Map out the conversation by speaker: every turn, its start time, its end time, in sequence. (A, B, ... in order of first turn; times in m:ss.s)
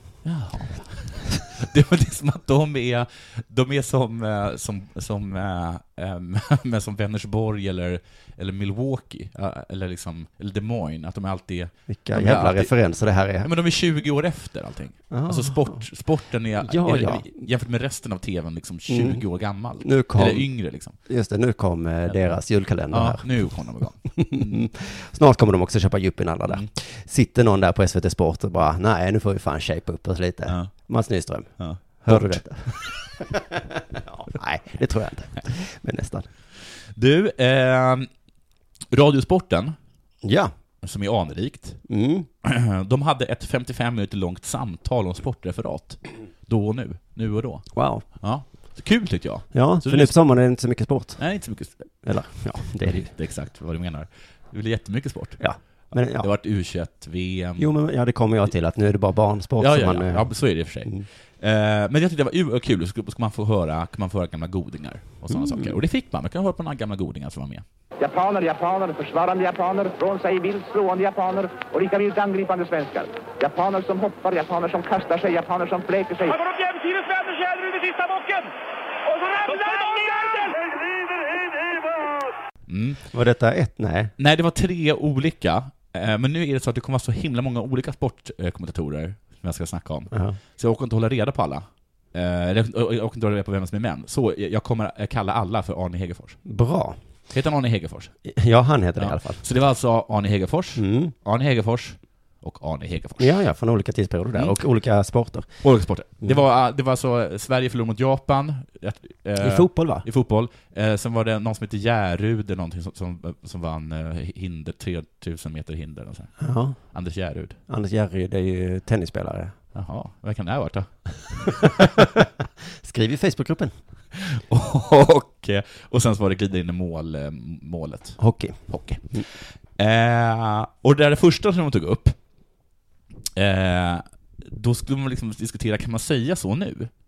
0:00.2-0:12.7 A
0:11.9-0:13.5 B
0:13.4-0:21.0 A
0:15.1-0:15.8 B
0:16.6-0:17.3 B
0:18.9-0:19.2 B
0:19.8-0:36.2 B
0:22.1-0:22.4 A
0:22.9-0:24.6 A
0:31.6-0:32.9 A
0:36.8-0:38.1 A
0:38.9-0:39.8 A
0:40.2-0:40.5 B
0:40.8-0:41.8 A
0:41.9-0:42.3 B
0:42.4-0:50.2 A
0:47.7-0:48.0 B
0:49.5-0:51.3 B
0:51.2-0:55.4 A
0:52.0-0:53.1 B
0:55.4-0:56.3 B
0:56.2-0:57.7 A
0:57.6-1:01.1 B
0:59.6-1:07.6 A
1:05.3-1:05.8 B
1:08.0-1:16.3 C
1:16.2-1:18.5 D
1:19.1-1:20.6 D
1:22.7-1:23.0 A
1:23.1-1:24.1 B
1:24.2-1:36.4 A
1:30.1-1:30.4 B
1:36.4-1:37.0 B
1:37.3-1:38.1 A
1:38.2-1:39.4 B
1:39.0-1:43.3 A
1:40.8-1:41.1 B
1:43.2-1:45.5 B
1:45.6-1:57.6 A
1:49.4-1:50.0 B
1:56.4-1:56.8 B
1:57.7-1:59.5 B
1:59.7-2:01.8 A
2:01.6-2:02.2 B
2:02.8-2:03.7 B
2:04.1-2:12.2 A
2:08.2-2:08.6 B
2:13.4-2:16.9 A